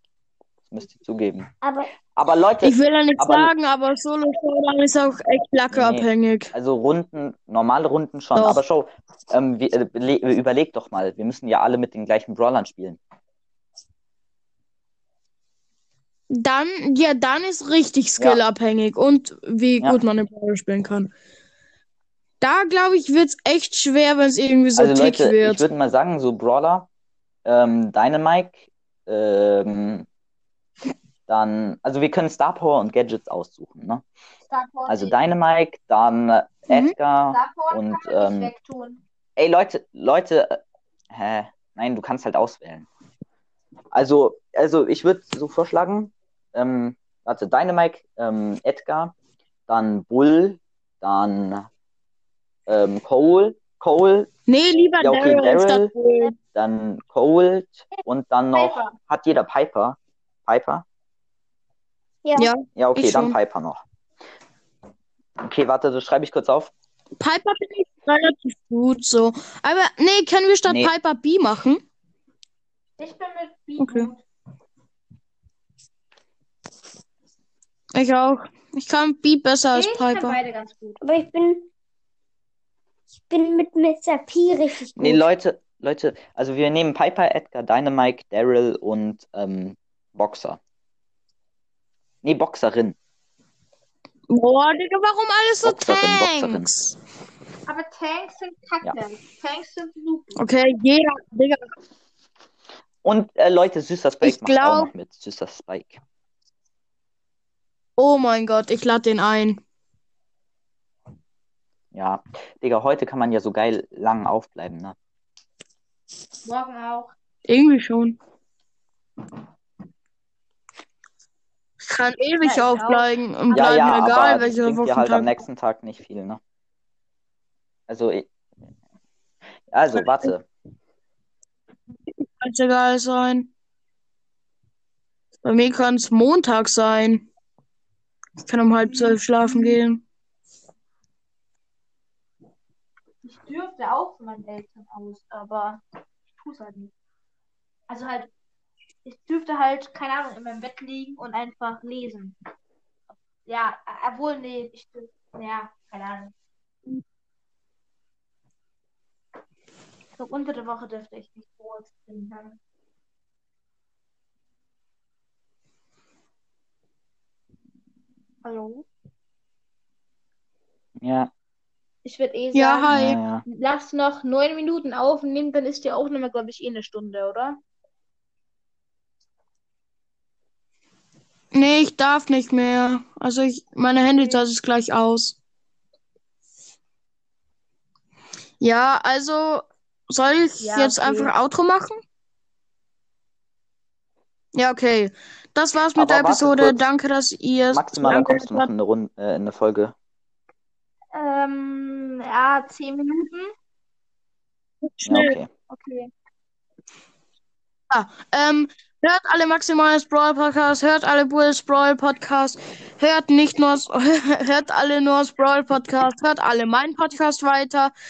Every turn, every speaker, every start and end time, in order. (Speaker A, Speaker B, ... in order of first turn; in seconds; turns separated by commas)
Speaker A: 0.7-1.5, Speaker B: 1.6-1.9, Speaker A: 2.0-3.5, Speaker C: 2.6-6.5, Speaker A: 5.7-13.0, Speaker C: 8.4-8.6, Speaker C: 16.3-21.1, Speaker C: 22.4-25.6, Speaker A: 24.8-26.9, Speaker A: 27.4-30.1, Speaker A: 31.3-34.0, Speaker D: 34.5-35.2, Speaker A: 34.9-38.5, Speaker C: 36.7-36.9, Speaker D: 37.3-39.0, Speaker A: 39.4-42.9, Speaker A: 43.9-49.1, Speaker A: 49.7-51.7, Speaker A: 52.7-54.3, Speaker C: 54.5-56.3, Speaker A: 55.0-55.9, Speaker A: 56.5-60.9, Speaker D: 58.5-59.0, Speaker B: 62.2-62.5, Speaker C: 62.4-63.3, Speaker A: 62.7-63.8, Speaker A: 65.4-66.7, Speaker C: 67.2-71.8, Speaker A: 70.7-70.9, Speaker D: 73.0-74.2, Speaker C: 73.8-74.1, Speaker C: 78.0-80.4, Speaker D: 79.7-81.0, Speaker B: 81.0-81.7, Speaker B: 83.2-85.2, Speaker A: 85.0-90.6, Speaker A: 92.2-93.0, Speaker C: 94.3-96.9, Speaker A: 95.6-96.7, Speaker D: 97.7-100.4, Speaker C: 100.4-101.7, Speaker A: 103.0-106.0, Speaker C: 104.2-104.9, Speaker C: 108.0-109.6, Speaker A: 111.9-115.0, Speaker D: 116.5-117.1, Speaker C: 117.5-118.2, Speaker C: 121.9-125.3, Speaker D: 122.4-123.9, Speaker A: 123.5-126.4, Speaker A: 127.9-128.3, Speaker A: 129.7-130.5, Speaker C: 130.0-130.3, Speaker C: 132.1-133.5, Speaker C: 135.4-137.3, Speaker C: 138.4-140.0, Speaker D: 138.9-139.8, Speaker D: 143.2-145.8, Speaker D: 146.3-146.9, Speaker D: 147.9-148.3, Speaker D: 149.1-152.4, Speaker D: 153.5-156.3, Speaker D: 160.2-162.6, Speaker D: 168.4-168.9, Speaker A: 171.0-171.3, Speaker D: 172.1-172.9, Speaker C: 172.5-173.2, Speaker A: 172.9-173.4, Speaker D: 173.4-177.6, Speaker C: 181.5-185.4, Speaker C: 188.6-192.0, Speaker D: 190.6-191.3, Speaker C: 194.6-198.7, Speaker A: 196.0-196.9, Speaker A: 197.7-199.9, Speaker D: 201.1-203.5, Speaker C: 204.8-205.3, Speaker A: 205.1-205.5, Speaker D: 205.7-206.1, Speaker C: 207.9-217.9